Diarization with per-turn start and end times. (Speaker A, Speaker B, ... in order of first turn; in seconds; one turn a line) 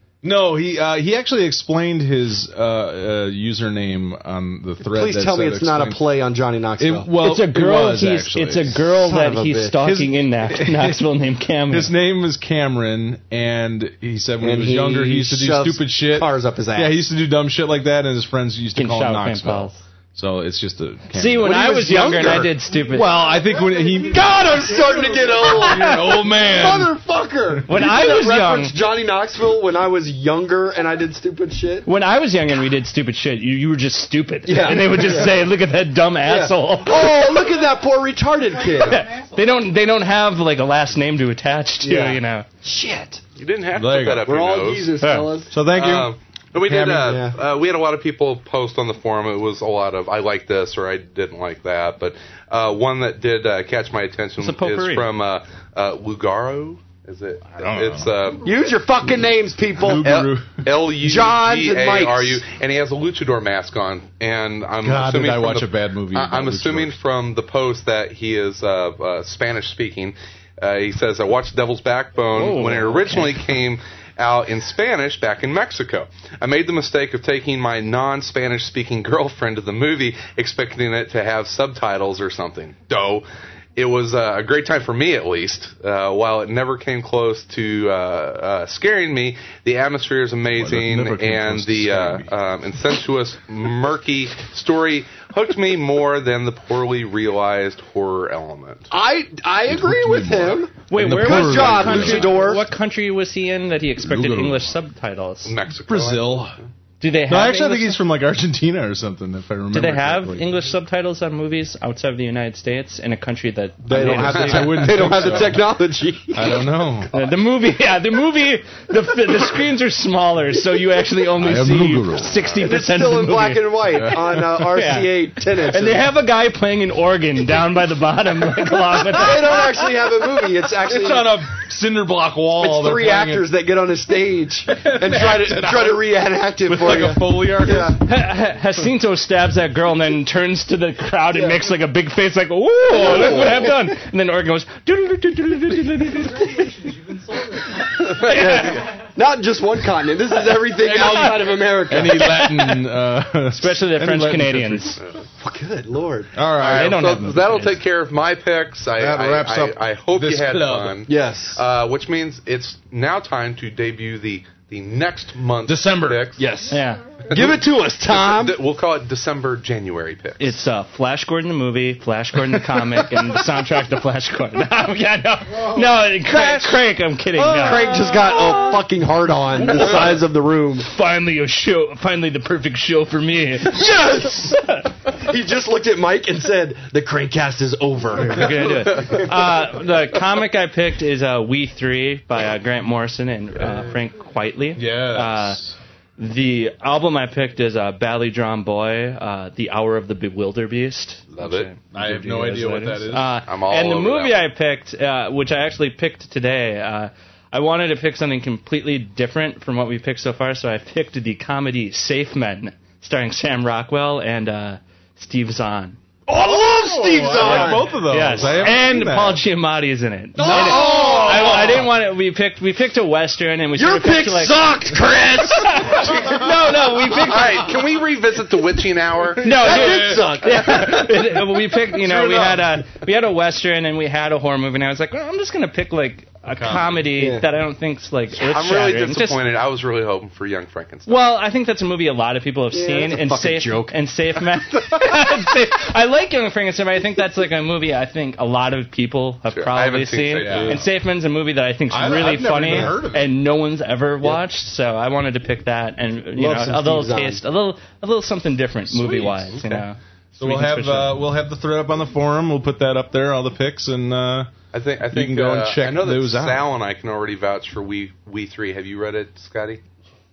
Speaker A: 0.2-6.1
Speaker B: 4.8-7.1
Speaker A: 6.8-8.8
Speaker C: 7.2-11.9
Speaker B: 8.9-9.8
Speaker A: 9.8-11.1
Speaker A: 11.7-26.9
Speaker B: 14.4-17.0
Speaker C: 18.7-19.8
Speaker C: 21.1-23.2
Speaker B: 21.4-22.5
Speaker B: 24.1-31.9
Speaker C: 27.7-28.8
Speaker C: 31.8-37.2
Speaker B: 34.5-35.4
Speaker B: 36.2-39.1
Speaker C: 38.8-42.5
Speaker B: 41.8-43.2
Speaker D: 43.4-45.0
Speaker A: 43.7-44.3
Speaker B: 44.2-45.5
Speaker C: 45.0-45.3
Speaker A: 45.5-47.2
Speaker D: 45.7-58.5
Speaker B: 47.0-47.3
Speaker C: 54.4-55.1
Speaker A: 57.6-58.1
Speaker B: 58.4-60.1
Speaker A: 59.8-60.8
Speaker D: 60.0-98.9
Speaker B: 61.0-62.4
Speaker A: 64.8-67.0
Speaker C: 72.3-73.3
Speaker A: 90.5-92.3
Speaker B: 98.9-102.7
Speaker A: 99.7-102.6
Speaker C: 100.9-105.5
Speaker A: 104.0-104.7
Speaker D: 105.4-106.6
Speaker A: 105.8-106.6
Speaker C: 107.0-108.0
Speaker A: 107.3-110.5
Speaker C: 109.7-115.3
Speaker B: 113.8-116.9
Speaker A: 113.9-117.1
Speaker D: 114.5-114.7
Speaker C: 117.1-129.8
Speaker A: 121.4-122.4
Speaker B: 122.5-126.1
Speaker A: 123.9-124.5
Speaker B: 129.1-131.5
Speaker A: 130.8-133.5
Speaker B: 132.6-138.0
Speaker A: 134.7-138.0
Speaker C: 138.0-146.9
Speaker B: 141.3-141.6
Speaker B: 142.9-143.7
Speaker C: 147.5-148.8
Speaker B: 148.2-152.4
Speaker C: 150.7-152.9
Speaker A: 151.9-155.0
Speaker C: 153.5-155.0
Speaker B: 155.4-156.3
Speaker A: 156.3-157.0
Speaker D: 156.6-166.4
Speaker C: 156.6-157.8
Speaker A: 159.0-161.0
Speaker B: 161.1-161.6
Speaker A: 165.7-166.2
Speaker B: 166.4-166.8
Speaker C: 166.7-167.0
Speaker B: 167.3-168.6
Speaker D: 167.3-170.6
Speaker C: 170.4-178.7
Speaker A: 172.7-173.2
Speaker B: 177.3-180.9
Speaker C: 179.7-180.0
Speaker C: 180.8-184.8
Speaker B: 183.7-189.5
Speaker C: 188.2-195.6
Speaker A: 194.8-195.8
Speaker C: 196.2-216.0
Speaker D: 201.3-201.7
Speaker A: 201.9-203.4
Speaker D: 203.5-204.5
Speaker B: 216.3-218.0
Speaker A: 216.3-219.4
Speaker C: 217.4-227.7
Speaker B: 220.3-221.9
Speaker A: 220.4-221.7
Speaker B: 223.7-227.1
Speaker D: 227.2-229.5
Speaker C: 229.4-239.4
Speaker B: 229.4-231.2
Speaker A: 229.5-231.1
Speaker A: 231.8-232.7
Speaker A: 236.5-237.0
Speaker B: 237.1-237.4
Speaker D: 238.3-241.2
Speaker C: 241.1-261.2
Speaker B: 242.7-244.0
Speaker D: 249.5-250.8
Speaker A: 250.4-250.9
Speaker A: 251.9-253.3
Speaker B: 252.7-252.9
Speaker B: 256.3-257.4
Speaker A: 258.9-259.6
Speaker A: 260.4-264.5
Speaker D: 264.7-269.8
Speaker A: 265.1-266.7